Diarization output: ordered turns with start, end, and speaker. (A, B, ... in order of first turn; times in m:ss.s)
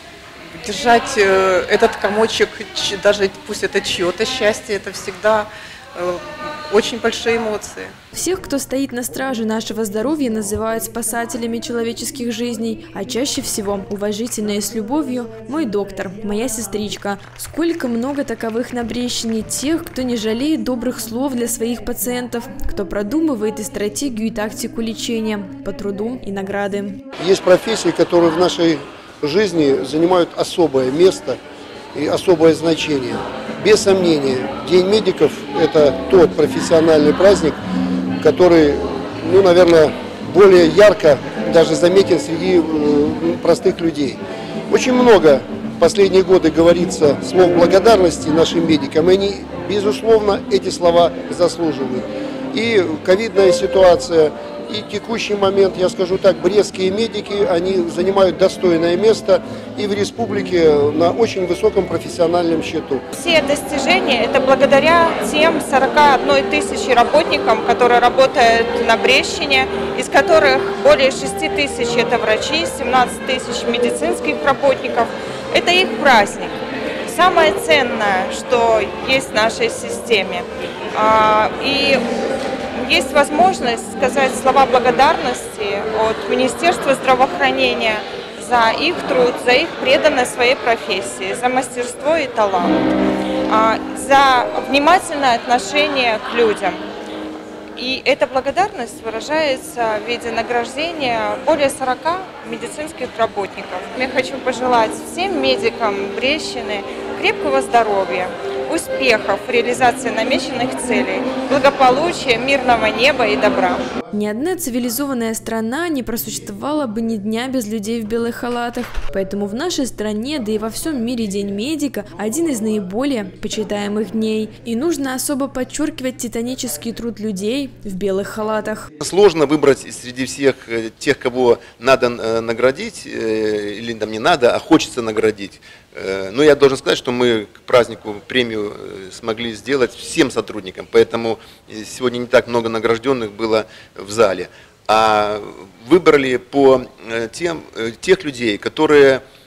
0:00.5-0:07.9 A
0:08.1-0:27.0 B
0:27.2-0:31.4 C
0:31.9-0:37.6 C
0:38.2-1:03.0 C
1:03.1-1:22.0 D
1:22.8-1:32.9 D
1:33.5-1:36.8 D
1:37.8-1:53.9 D
1:54.1-2:08.9 B
2:09.0-2:29.2 E